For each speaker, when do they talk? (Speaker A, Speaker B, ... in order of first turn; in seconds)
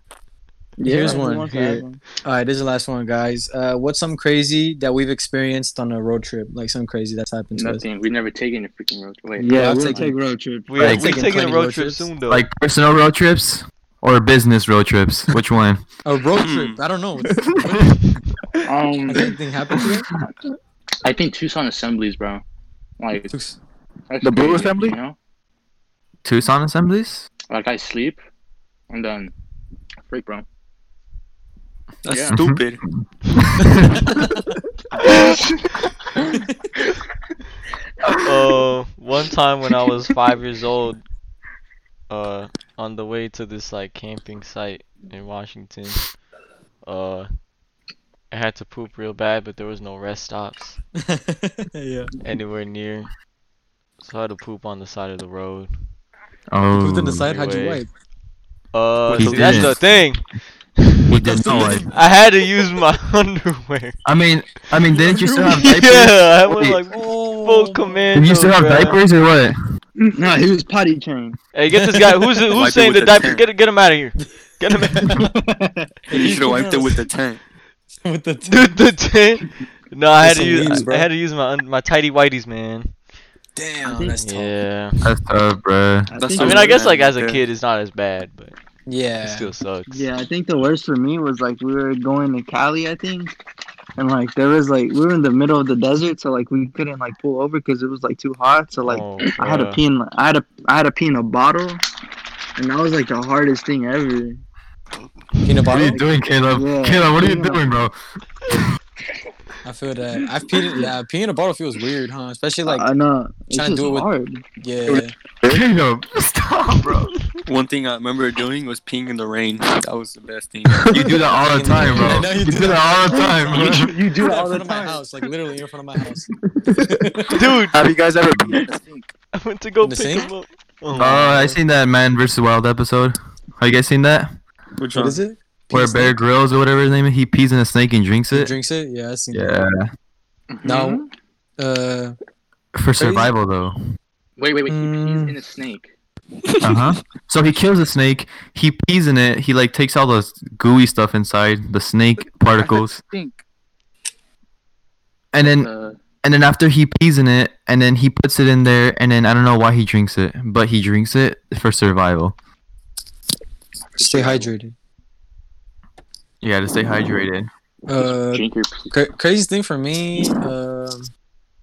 Speaker A: 0.8-2.0, 9.4-10.9, 70.0-71.4, 83.8-84.2, 86.1-87.0, 89.9-93.3, 94.0-101.8, 102.6-104.4, 105.8-107.7, 112.6-114.5
Speaker B: 0.8-7.8, 9.5-10.2, 10.8-12.1, 16.1-17.9, 19.1-20.1, 23.3-23.6, 51.0-52.1, 56.8-57.9, 59.1-59.6, 61.4-61.9, 65.0-65.7, 66.9-68.4, 71.7-72.4, 74.8-77.0, 78.0-78.9, 80.2-81.1, 83.5-84.6, 88.9-89.5, 105.5-106.1, 109.6-112.9, 113.5-114.1, 114.6-115.1, 121.5-127.3, 129.8-130.3, 134.9-136.2, 138.3-139.6, 140.7-141.0, 141.6-142.2, 143.0-143.3, 144.7-145.4, 164.0-164.7, 167.9-171.1
Speaker C: 7.5-10.1, 18.6-19.4, 21.0-22.4, 23.0-23.3, 24.1-25.2, 27.5-28.2, 28.9-29.3, 30.1-30.4, 32.1-32.4, 140.5-141.1, 144.4-145.9, 155.4-156.0, 164.0-164.5, 167.9-168.9
Speaker D: 10.7-12.5, 38.2-41.0, 42.1-46.1, 46.8-47.4, 48.3-50.8, 52.2-53.1, 54.0-55.8, 57.2-57.8, 58.7-61.1, 61.9-64.0, 65.4-69.0, 71.5-75.3, 78.5-83.0, 84.2-85.0, 86.4-88.5, 89.2-90.0, 98.8-99.8, 127.3-127.8, 129.3-131.6
Speaker E: 10.8-11.0, 12.3-15.8, 26.2-27.3, 32.3-33.0, 38.1-38.3, 56.5-57.3, 59.1-60.0, 61.1-61.9, 64.0-66.8, 68.1-69.6, 85.0-86.1, 105.7-108.0, 114.9-117.2, 120.8-123.9, 131.0-134.3, 135.7-138.6, 139.3-139.9, 142.7-143.8, 146.6-153.0, 155.3-155.7, 156.2-162.4, 166.4-167.5
Speaker F: 16.3-16.8, 32.0-32.9, 59.2-59.8, 61.3-61.8, 72.5-73.5, 76.1-77.4, 86.2-87.5, 117.5-121.1, 134.8-135.2
Speaker G: 24.2-25.0, 123.4-125.0, 127.5-129.1, 152.6-153.4